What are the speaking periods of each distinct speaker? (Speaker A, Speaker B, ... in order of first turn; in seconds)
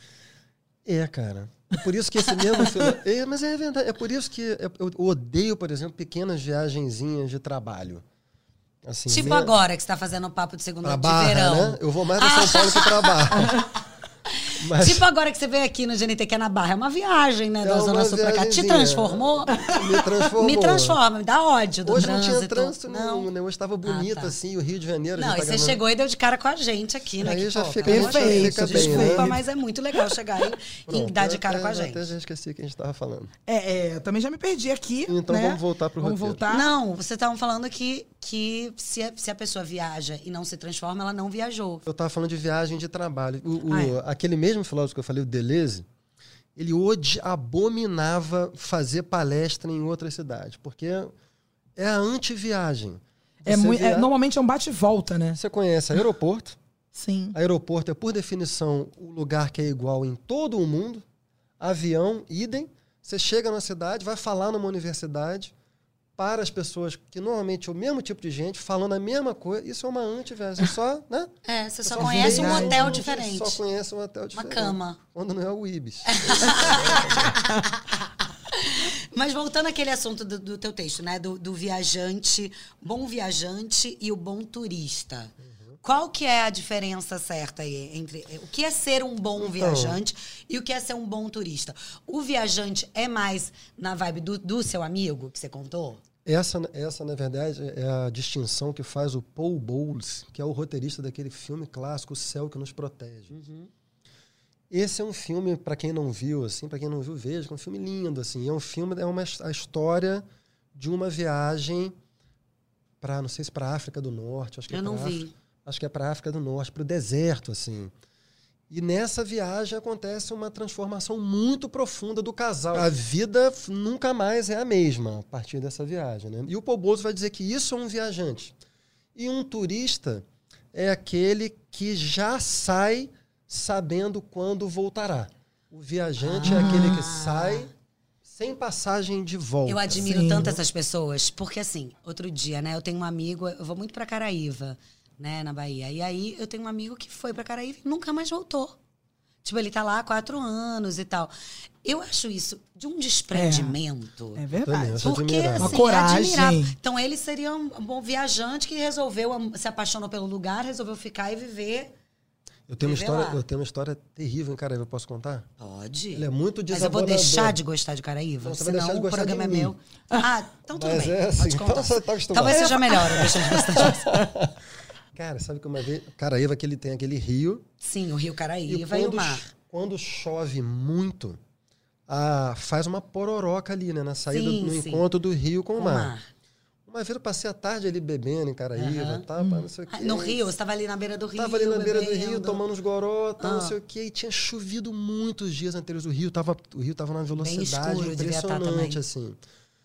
Speaker A: 0.8-8.0, 8.8-9.6, 10.8-13.7, 14.6-15.1, 17.6-21.0, 21.9-25.8, 27.2-29.4, 30.9-33.3, 35.1-36.4, 41.9-45.9, 46.6-51.1, 51.8-54.1, 55.4-56.6, 57.3-61.0, 61.6-65.5, 66.2-71.3, 71.8-77.4, 89.4-90.0, 96.2-103.3, 104.7-111.9, 113.0-117.9, 118.7-128.6, 129.2-137.7, 138.2-140.6, 154.6-155.8, 162.7-165.5, 166.1-167.6, 168.4-169.8, 170.7-174.6, 175.2-177.7, 178.7-181.4, 182.1-186.1, 186.9-190.5, 191.4-199.4
Speaker B: 9.1-13.6, 14.4-19.8, 20.3-23.3, 23.9-24.4, 25.1-32.1, 36.5-41.9, 71.5-73.6, 74.3-75.0, 76.1-96.0, 103.3-103.7, 114.7-115.3, 136.2-137.7, 139.7-148.8, 149.4-151.3, 151.8-154.4, 155.0-161.9, 162.8-163.4, 165.6-174.0, 177.8-179.5, 184.3-185.1, 185.8-186.3, 188.8-189.3, 189.9-192.6, 193.4-193.8, 197.4-199.0
Speaker C: 27.9-29.4, 33.5-36.7, 43.7-44.0, 53.5-55.4, 56.9-57.4, 72.0-73.0, 136.5-137.1, 140.0-140.5, 153.3-153.8, 154.4-155.1, 155.6-156.8, 172.9-174.2, 189.4-189.7